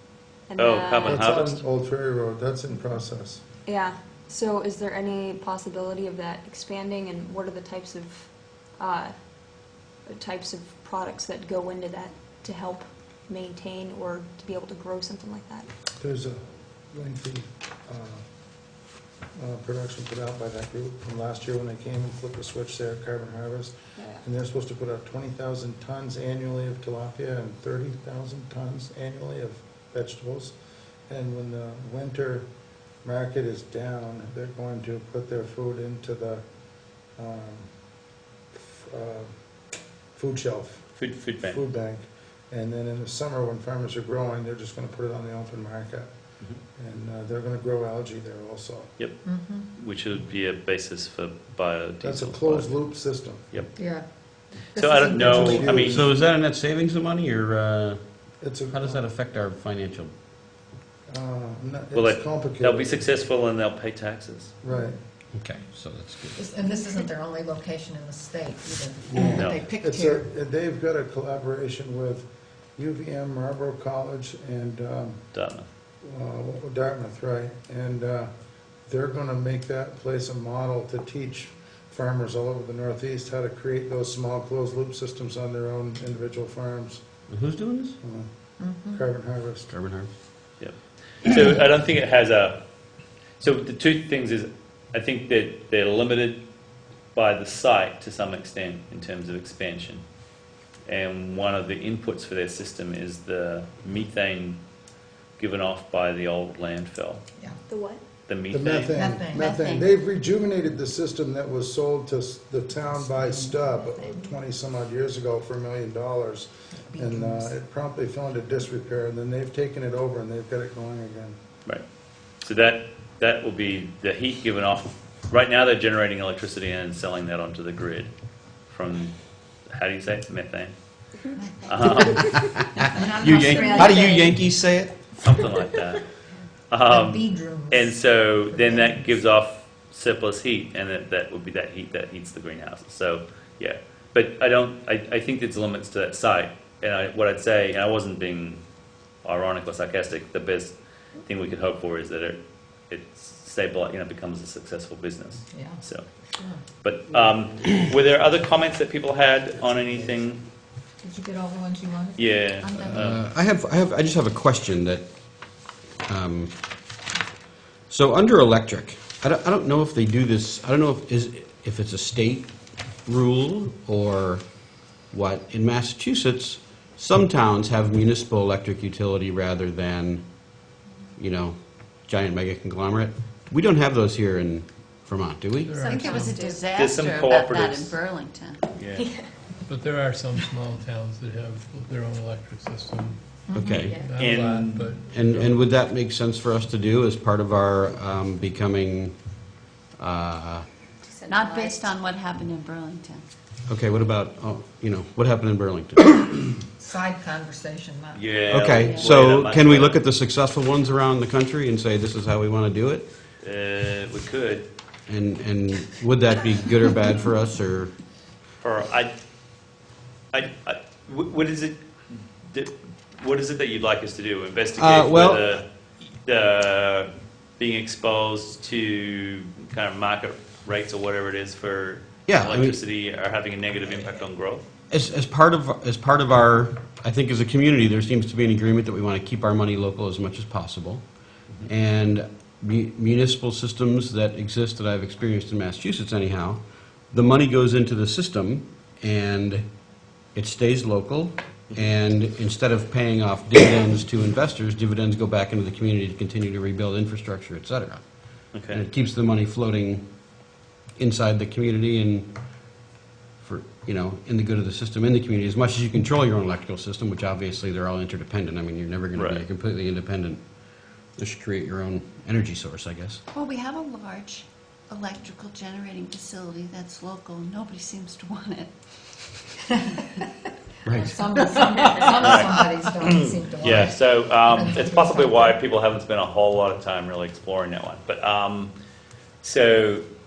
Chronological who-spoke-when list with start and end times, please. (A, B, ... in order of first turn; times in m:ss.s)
0:00.5-0:01.3 A
0:00.6-0:01.6 B
0:01.1-0:03.4 C
0:03.7-0:09.2 A
0:10.1-0:15.7 A
0:16.0-0:18.2 C
0:19.4-0:30.5 C
0:24.0-0:24.2 A
0:31.1-0:32.5 C
0:33.0-0:36.4 C
0:37.2-0:37.7 C
0:38.5-0:39.3 C
0:40.2-0:46.1 C
0:41.0-0:41.6 B
0:46.8-0:48.9 C
0:49.2-0:49.7 D
0:49.8-0:52.9 B
0:52.0-0:53.4 C
0:53.8-0:54.1 D
0:54.7-0:56.0 B
0:54.8-0:55.9 D
0:55.0-0:56.2 C
0:55.7-0:58.0 E
0:58.4-0:59.0 C
0:58.7-1:00.1 E
1:01.1-1:03.0 C
1:01.9-1:04.5 B
1:04.6-1:05.0 C
1:05.3-1:06.4 E
1:06.4-1:10.3 D
1:09.1-1:12.3 C
1:09.3-1:09.7 B
1:12.8-1:15.3 C
1:15.3-1:15.7 B
1:16.0-1:18.3 C
1:18.9-1:27.0 C
1:27.3-1:28.0 E
1:28.0-1:28.3 C
1:28.6-1:29.0 D
1:28.9-1:29.7 C
1:29.7-1:30.1 E
1:30.6-1:32.6 B
1:33.4-1:36.4 B
1:37.2-1:40.0 B
1:40.9-1:44.6 B
1:45.4-1:47.2 B
1:47.7-1:48.0 A
1:48.3-1:49.0 B
1:48.5-2:01.4 C
1:48.9-1:49.5 D
1:49.3-1:50.0 F
1:52.8-1:54.4 D
1:56.8-1:57.5 D
2:02.4-2:08.1 B
2:08.7-2:09.2 B
2:09.7-2:10.7 B
2:11.4-2:12.1 D
2:11.6-2:11.9 F
2:11.7-2:12.5 B
2:12.0-2:14.9 E
2:12.8-2:14.4 D
2:15.2-2:16.0 B
2:16.7-2:28.6 B
2:16.9-2:17.9 D
2:18.5-2:19.2 D
2:29.2-2:32.4 B
2:32.9-2:36.1 B
2:35.5-2:36.6 D
2:36.8-2:40.4 B
2:41.0-2:42.3 D
2:42.2-2:43.2 B
2:42.6-2:43.0 F
2:42.8-2:45.0 E
2:46.0-2:46.5 E
2:47.9-2:52.5 E
2:53.1-2:54.4 E
2:55.1-3:00.3 E
3:01.2-3:05.7 E
3:05.6-3:06.5 G
3:05.8-3:06.6 D
3:05.8-3:08.6 F
3:06.7-3:08.0 B
3:08.8-3:09.1 B
3:09.0-3:09.2 A
3:09.7-3:15.6 G
3:13.5-3:14.2 D
3:13.5-3:14.0 E
3:14.2-3:14.9 B
3:15.1-3:19.2 E
3:20.0-3:20.6 E
3:21.0-3:22.0 D
3:21.3-3:23.2 F
3:23.7-3:26.1 E
3:26.8-3:28.3 D
3:28.2-3:30.0 B
3:28.5-3:33.1 E
3:28.8-3:29.1 F
3:33.4-3:34.7 B
3:35.1-3:38.0 E
3:38.6-3:39.1 B
3:40.3-3:41.8 B
3:42.5-3:45.6 B
3:44.8-3:45.6 E
3:46.2-3:54.6 B
3:52.3-3:52.8 E
3:54.9-4:01.1 E
4:01.6-4:06.6 E
4:07.1-4:09.7 E
4:10.3-4:20.0 E
4:18.5-4:18.8 B
4:21.0-4:22.3 E
4:23.4-4:30.4 E
4:29.2-4:29.4 B
4:31.2-4:33.2 E
4:33.3-4:38.7 F
4:40.8-4:41.3 E
4:40.9-4:45.6 D
4:41.4-4:41.8 F
4:42.2-4:48.7 B
4:49.4-4:50.0 B